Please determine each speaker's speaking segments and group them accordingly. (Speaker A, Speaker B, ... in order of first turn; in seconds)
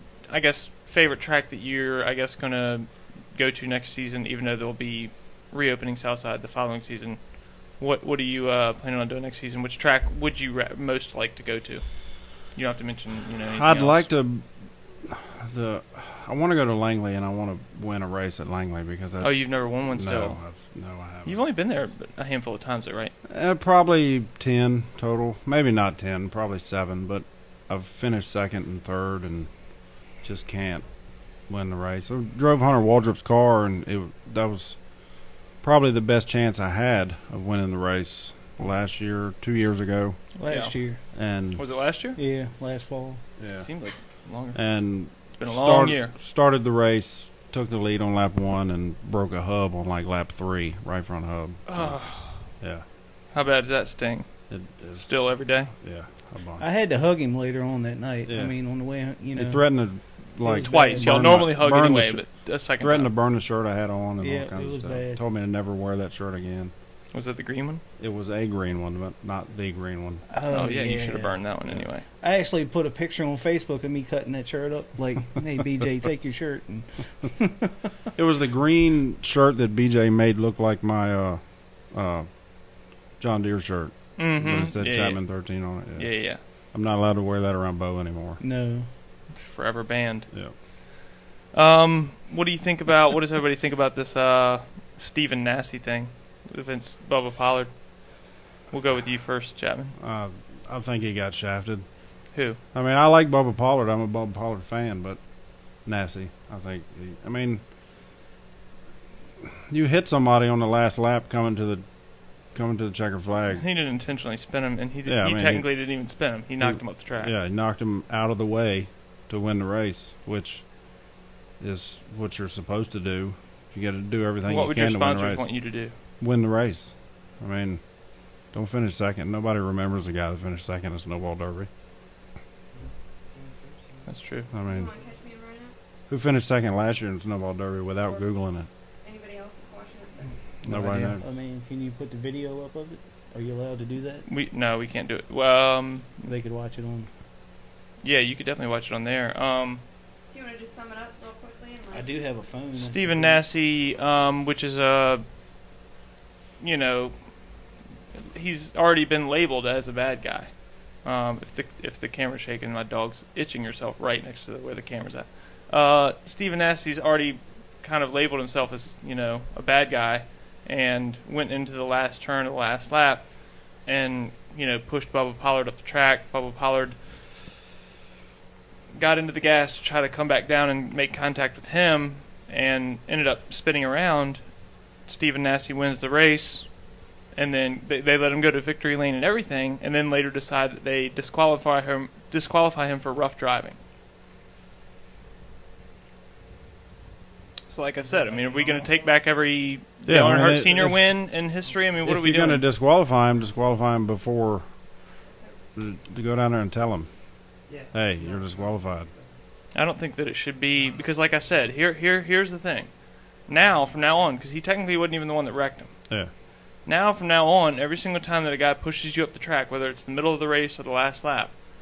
Speaker A: 0.3-14.1, 19.2-20.4, 21.2-23.1, 41.6-42.2, 43.6-44.6, 45.4-46.1, 51.7-52.4, 53.3-54.3, 55.0-55.7, 60.7-63.1, 67.1-67.8, 70.5-72.0, 84.2-85.4, 86.0-86.4, 89.4-90.3, 91.5-97.7, 98.7-100.0, 102.3-102.6, 113.5-117.3, 124.5-125.9, 134.1-134.5, 140.7-141.2, 144.3-146.3, 148.0-149.8, 152.8-155.2, 156.6-157.2, 158.2-173.3, 173.8-177.0, 178.9-184.5, 185.0-186.7, 187.3-193.8, 197.7-202.6, 209.7-212.9, 213.4-215.9, 216.9-221.5
Speaker B: 13.5-14.5, 15.0-21.4, 23.3-29.5, 30.2-30.9, 31.5-34.8, 35.6-40.2, 41.1-41.6, 43.4-43.7, 44.5-52.9, 54.5-55.2, 55.7-56.6, 58.3-58.5, 59.4-66.7, 68.0-70.3, 78.2-82.3, 83.2-88.4, 100.0-101.8, 102.7-105.2, 105.8-107.6, 109.7-111.8, 112.5-113.6, 115.1-115.7, 116.6-120.7, 121.6-125.5, 126.2-127.8, 128.5-131.7, 134.5-134.9, 136.1-138.7, 140.7-141.2, 200.1-201.1, 202.1-204.7, 205.8-207.1, 207.9-209.1
Speaker C: 40.4-41.0, 42.2-43.2, 56.6-59.6, 60.4-61.4, 64.2-65.2, 70.3-71.4, 72.2-77.8, 88.4-88.9, 141.1-144.3, 146.2-147.1, 151.9-153.4
Speaker D: 132.7-134.1, 198.0-199.4, 207.7-209.4, 210.8-211.1
Speaker E: 134.7-135.7, 139.0-140.4, 150.3-152.1, 205.3-205.6